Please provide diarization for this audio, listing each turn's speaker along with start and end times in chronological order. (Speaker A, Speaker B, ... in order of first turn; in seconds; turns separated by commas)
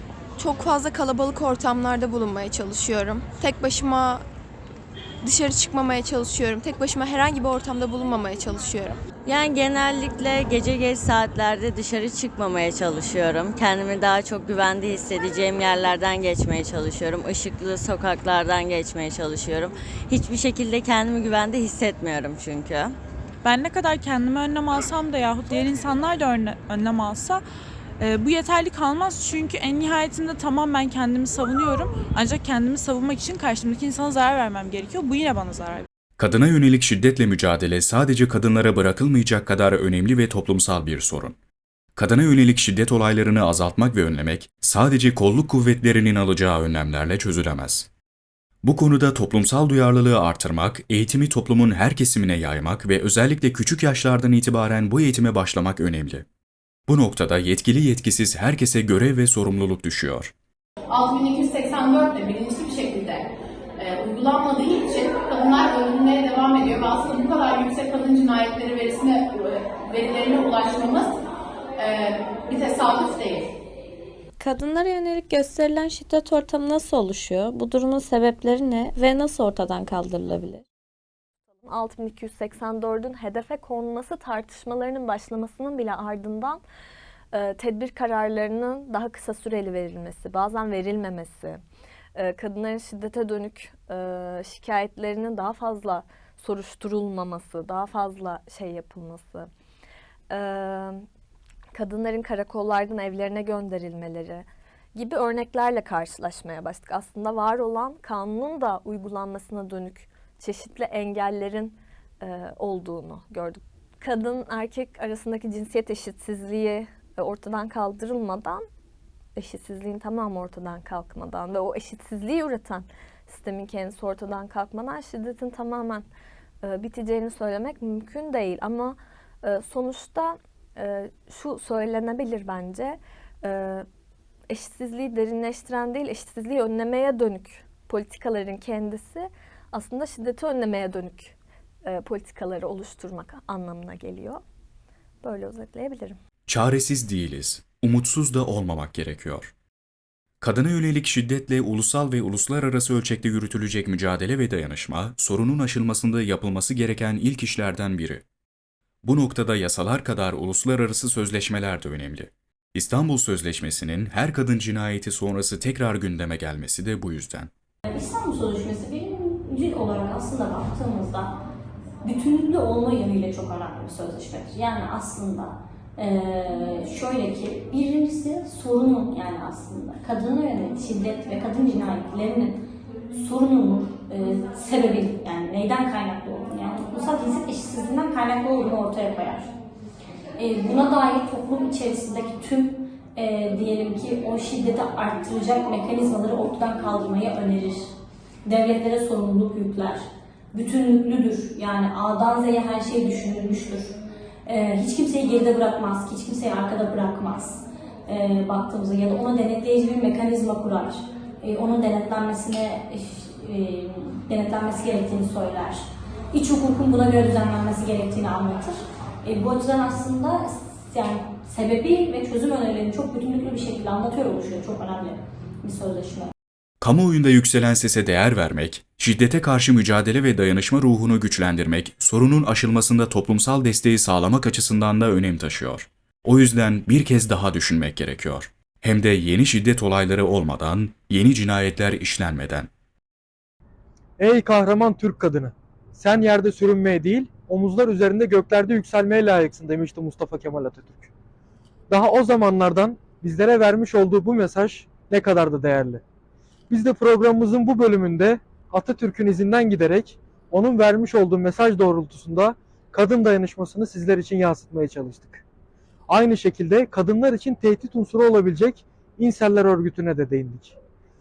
Speaker A: 0.4-4.2, Speaker A: 5.2-9.0, Speaker B: 9.2-22.9, Speaker C: 23.4-27.4, Speaker C: 28.0-35.9, Speaker D: 36.2-41.4, Speaker D: 42.0-47.9, Speaker D: 48.6-56.3, Speaker D: 56.9-60.3, Speaker E: 60.9-71.2, Speaker E: 71.8-73.5, Speaker F: 74.4-80.6, Speaker G: 81.6-86.6, Speaker G: 87.3-91.6, Speaker G: 92.2-99.5, Speaker G: 100.3-101.0, Speaker G: 101.7-118.6, Speaker G: 119.4-126.1, Speaker G: 126.6-133.8, Speaker G: 134.5-144.4, Speaker G: 145.2-146.2, Speaker D: 146.5-149.5, Speaker D: 150.4-158.2, Speaker D: 159.0-167.5, Speaker H: 167.8-171.3, Speaker H: 172.0-182.6, Speaker H: 183.1-189.5, Speaker H: 190.4-197.9, Speaker H: 198.5-226.3, Speaker D: 226.8-242.7, Speaker I: 244.2-251.1, Speaker I: 251.9-256.0, Speaker I: 256.7-265.4, Speaker I: 266.1-270.8